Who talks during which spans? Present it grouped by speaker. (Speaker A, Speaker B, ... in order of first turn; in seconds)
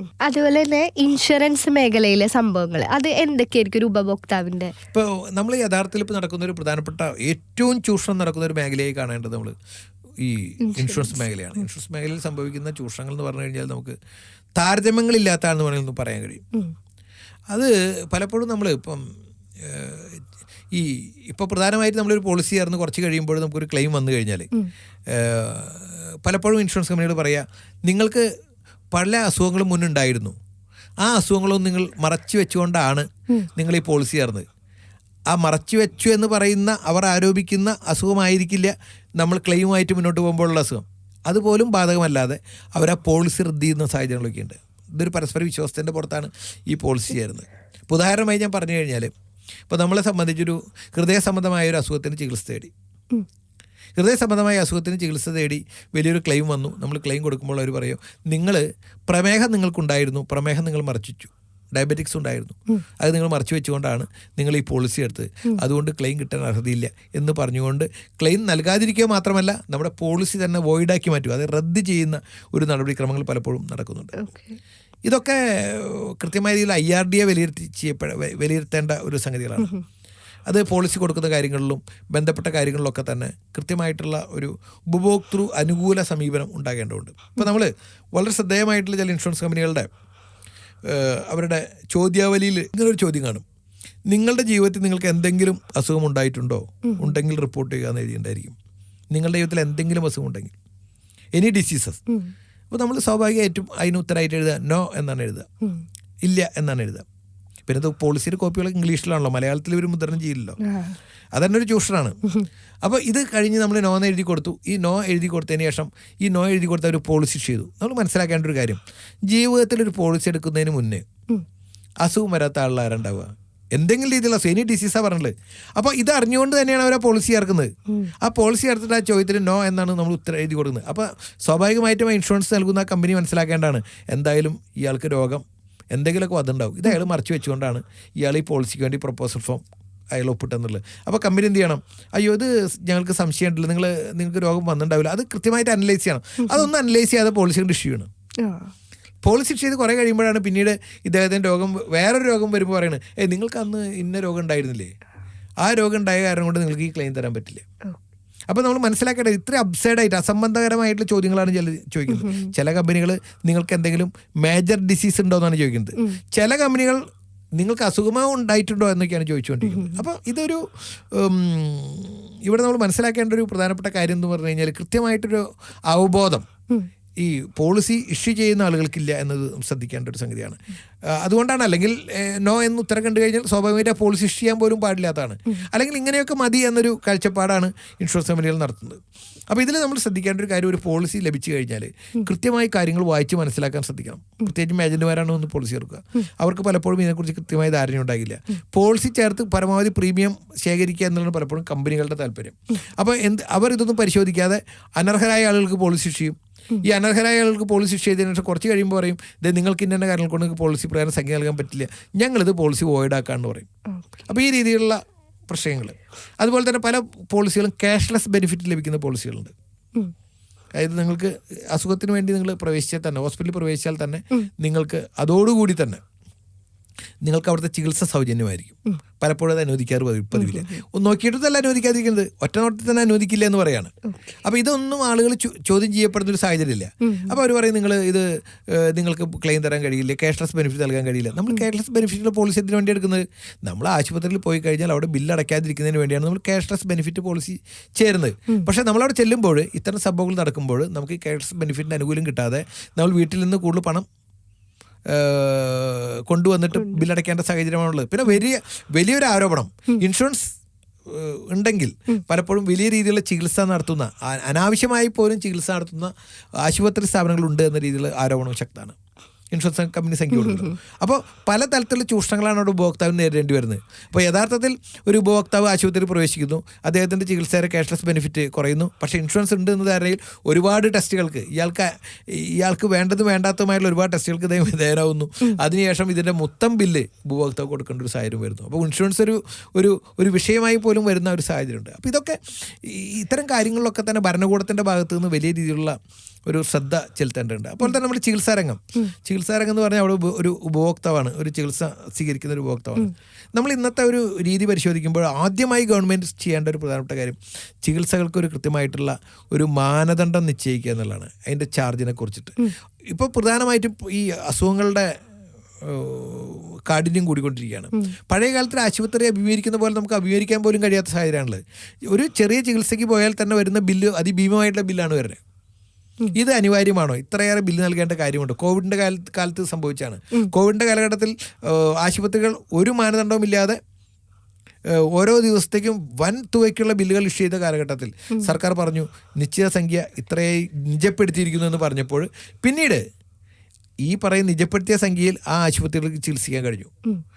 Speaker A: 0.2-4.7, 10.7-11.2, 74.2-74.6, 110.7-111.0, 148.4-148.7, 162.2-162.5, 237.0-237.3
Speaker B: 4.9-9.6, 10.2-14.0, 14.6-16.4, 17.5-19.0, 19.6-24.5, 25.1-28.3, 28.9-30.4, 31.0-34.5, 35.3-49.1, 49.7-52.7, 54.0-74.2, 75.1-79.7, 80.5-89.9, 90.8-93.5, 94.1-98.6, 99.1-100.5, 101.3-102.0, 102.7-105.5, 106.2-107.1, 107.7-110.6, 111.3-112.2, 112.8-121.1, 122.0-148.1, 149.2-154.9, 155.6-157.7, 158.5-167.0, 167.6-176.5, 177.2-213.7, 214.3-219.5, 220.8-226.0, 227.2-254.1, 255.1-260.6, 261.1-269.0, 269.5-315.1, 315.8-325.4, 326.3-333.8, 334.9-343.0, 344.0-346.9